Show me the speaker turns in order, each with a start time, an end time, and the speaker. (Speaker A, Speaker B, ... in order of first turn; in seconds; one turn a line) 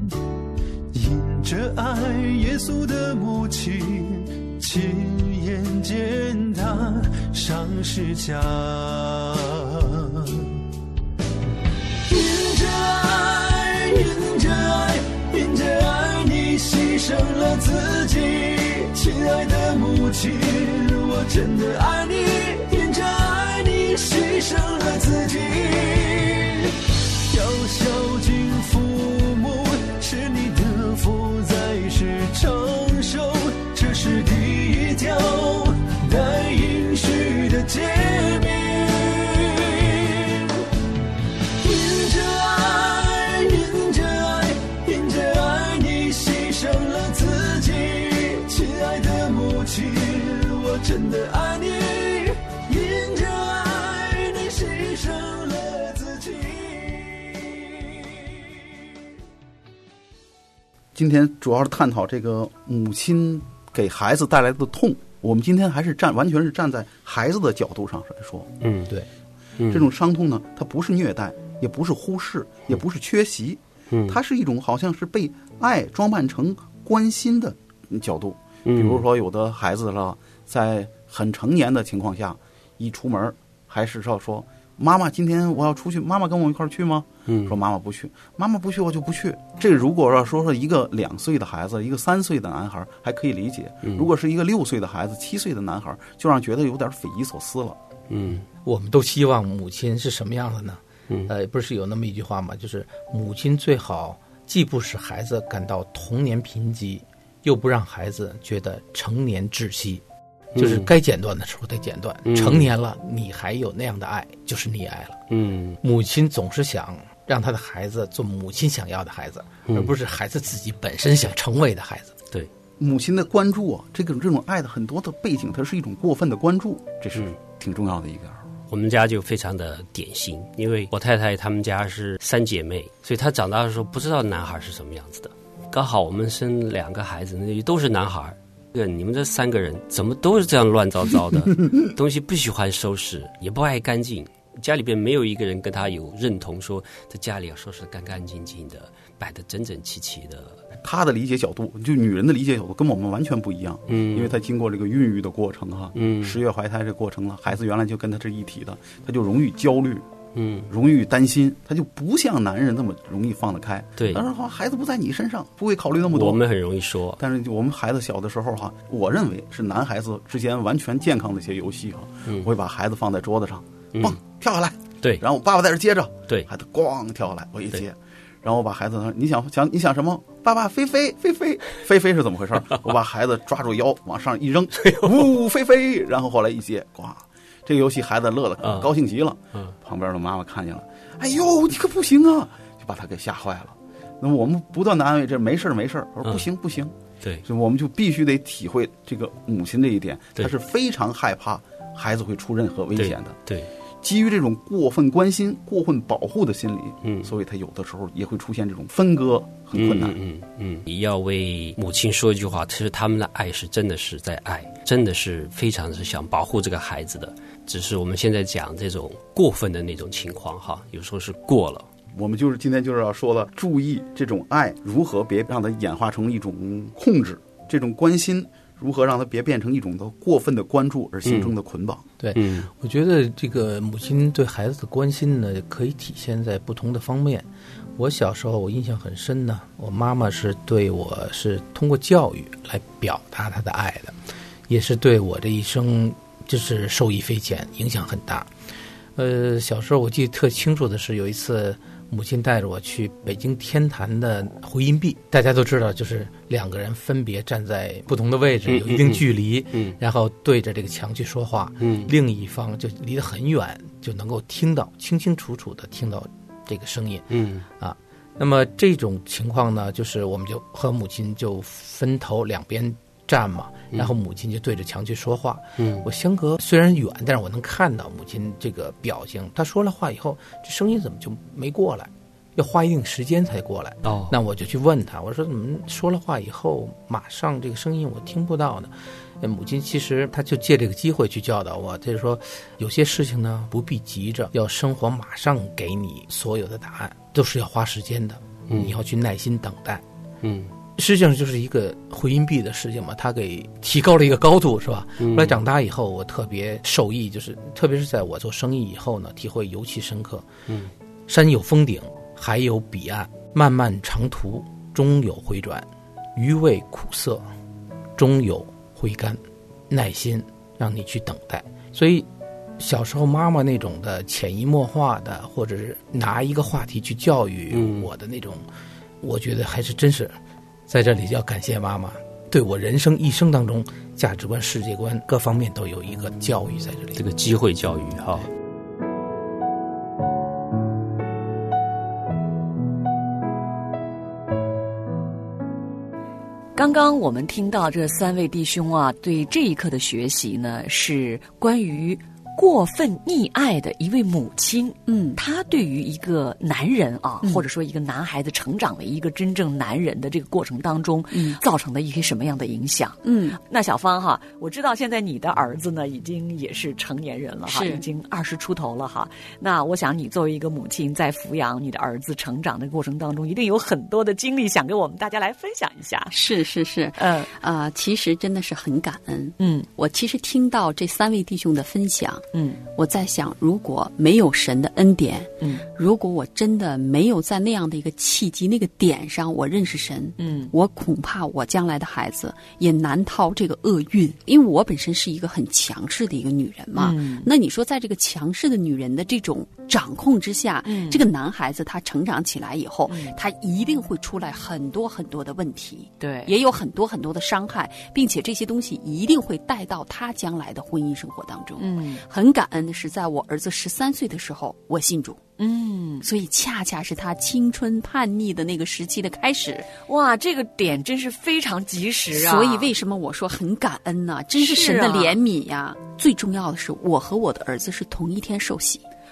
Speaker A: 1.9-3.5
Speaker A: 5.5-6.0
Speaker A: 7.5-8.2
Speaker B: 60.9-68.5
Speaker C: 68.6-68.9
Speaker C: 69.6-69.9
Speaker B: 69.7-97.8
Speaker C: 73.9-74.2
Speaker C: 78.7-79.0
Speaker C: 87.3-87.5
Speaker C: 98.1-98.5
Speaker D: 98.6-110.0
Speaker C: 110.5-110.9
Speaker D: 110.5-115.2
Speaker C: 112.3-112.7
Speaker C: 115.3-115.8
Speaker D: 115.8-122.1
Speaker B: 122.8-128.4
Speaker C: 128.7-150.6
Speaker B: 150.8-160.1
Speaker C: 153.9-154.3
Speaker C: 155.9-156.4
Speaker C: 160.3-160.7
Speaker B: 160.7-166.4
Speaker C: 164.0-164.2
Speaker C: 166.1-167.2
Speaker B: 167.2-203.4
Speaker C: 188.6-188.9
Speaker C: 202.9-203.7
Speaker B: 204.0-210.2
Speaker C: 207.0-207.3
Speaker C: 209.7-221.9
Speaker B: 222.1-232.0
Speaker C: 231.2-231.5
Speaker D: 232.2-244.1
Speaker C: 232.3-232.7
Speaker D: 244.7-248.5
Speaker D: 249.2-267.3
Speaker C: 258.7-260.0
Speaker C: 261.8-262.1
Speaker C: 267.3-267.6
Speaker D: 267.8-300.0
Speaker C: 275.8-276.1
Speaker C: 284.0-284.3
Speaker C: 300.4-300.7
Speaker D: 301.0-310.4
Speaker C: 305.2-305.6
Speaker D: 311.3-317.4
Speaker D: 318.2-322.3
Speaker D: 322.8-328.6
Speaker C: 327.7-328.1
Speaker D: 329.2-330.4
Speaker D: 330.9-337.2
Speaker C: 337.1-338.5
Speaker E: 346.7-376.3
Speaker F: 355.1-355.4
Speaker F: 361.3-361.6
Speaker F: 363.2-363.6
Speaker F: 367.6-368.0
Speaker F: 376.3-415.4
Speaker E: 377.2-377.5
Speaker E: 379.6-379.9
Speaker E: 382.5-382.8
Speaker E: 390.4-390.7
Speaker E: 396.9-397.5
Speaker E: 400.8-401.2
Speaker E: 403.1-403.4
Speaker E: 406.2-406.5
Speaker E: 411.8-412.2
Speaker E: 415.6-416.2
Speaker F: 416.2-419.9
Speaker E: 420.0-422.9
Speaker F: 422.3-429.0
Speaker E: 424.6-425.4